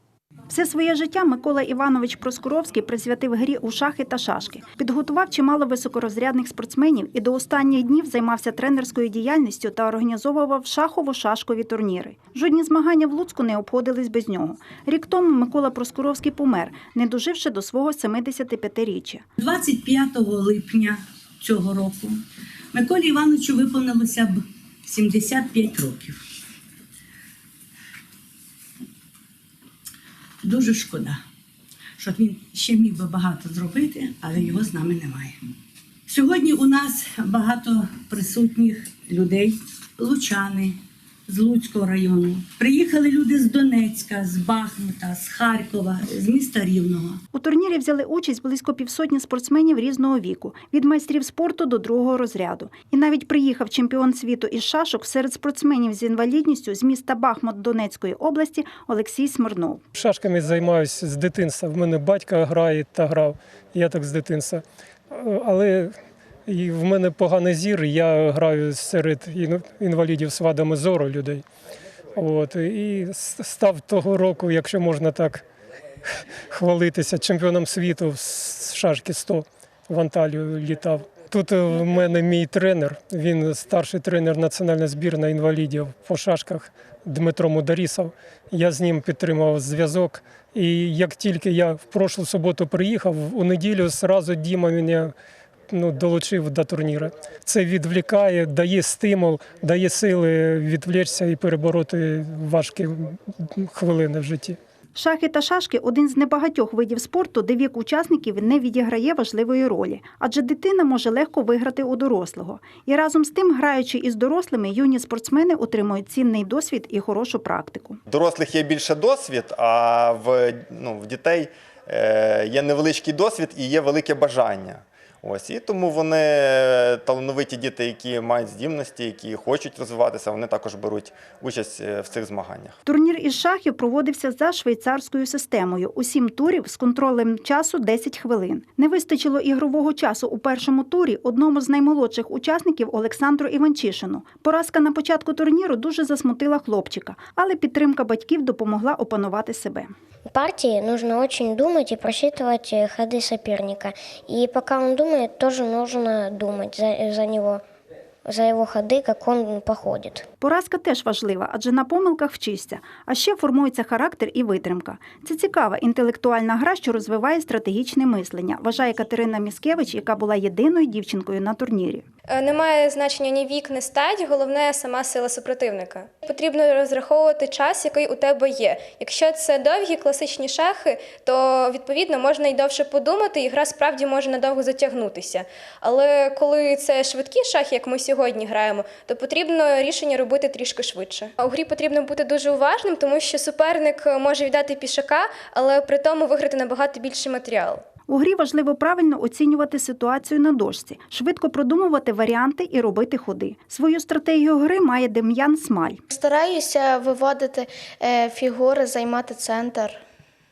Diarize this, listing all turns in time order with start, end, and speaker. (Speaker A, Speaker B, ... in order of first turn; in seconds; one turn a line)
Speaker A: 0.5-19.2
Speaker B: 19.4-22.1
Speaker B: 22.7-24.3
Speaker B: 24.9-26.1
Speaker B: 30.4-31.2
Speaker B: 32.0-35.3
Speaker B: 36.1-39.5
Speaker B: 40.0-40.7
Speaker B: 41.3-47.2
Speaker A: 47.3-59.8
Speaker C: 60.0-65.9
Speaker C: 66.5-71.4
Speaker C: 72.2-75.5
Speaker C: 76.5-95.1
Speaker C: 95.7-104.6
Speaker A: 105.0-118.0
Speaker D: 118.1-132.7
Speaker A: 132.9-149.9
Speaker E: 150.3-157.6
Speaker E: 158.3-160.3
Speaker A: 160.4-172.0
Speaker F: 172.3-197.8
Speaker A: 198.1-206.0
Speaker G: 206.1-210.0